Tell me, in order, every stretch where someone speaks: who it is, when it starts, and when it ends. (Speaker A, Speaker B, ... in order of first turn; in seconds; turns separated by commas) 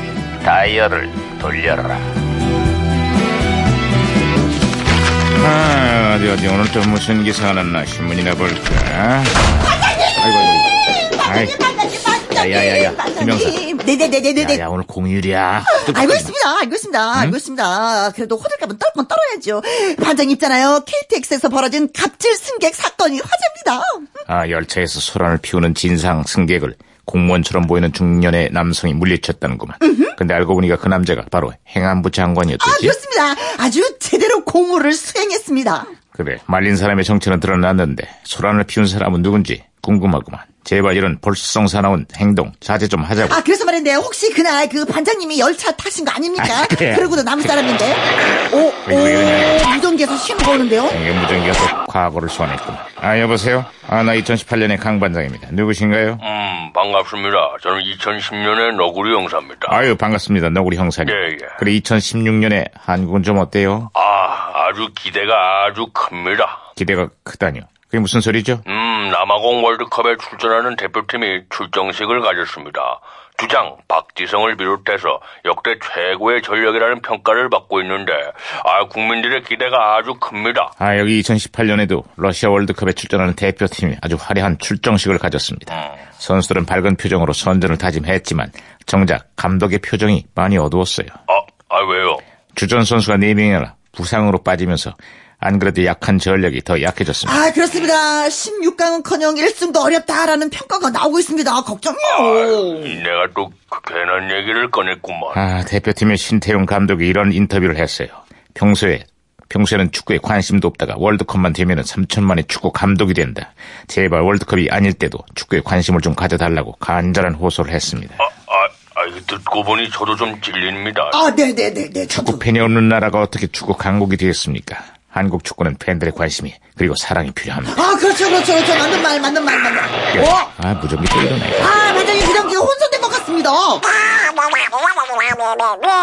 Speaker A: 0.4-2.0, Speaker A: 5.4-9.5, Speaker B: 9.7-10.1, Speaker A: 10.2-10.7, Speaker B: 10.7-14.6, Speaker A: 11.2-11.6, Speaker A: 12.3-13.6, Speaker A: 14.4-16.3, Speaker B: 15.7-24.1, Speaker A: 24.3-33.0, Speaker B: 29.8-30.1, Speaker B: 32.6-35.9, Speaker A: 36.1-43.4, Speaker B: 43.3-51.0, Speaker A: 46.4-47.2, Speaker A: 48.9-49.7, Speaker A: 50.9-56.2, Speaker C: 56.2-59.9, Speaker A: 59.7-63.9, Speaker C: 61.0-61.6, Speaker C: 64.0-66.6, Speaker A: 66.8-68.6, Speaker C: 68.7-80.7, Speaker A: 80.8-91.2, Speaker C: 91.3-92.2, Speaker A: 92.5-97.5, Speaker B: 97.2-103.0, Speaker C: 102.0-105.4, Speaker A: 105.3-118.2, Speaker C: 118.2-121.2, Speaker B: 121.1-122.4, Speaker A: 122.1-127.8, Speaker B: 127.7-130.5, Speaker A: 130.1-131.7, Speaker B: 131.6-134.1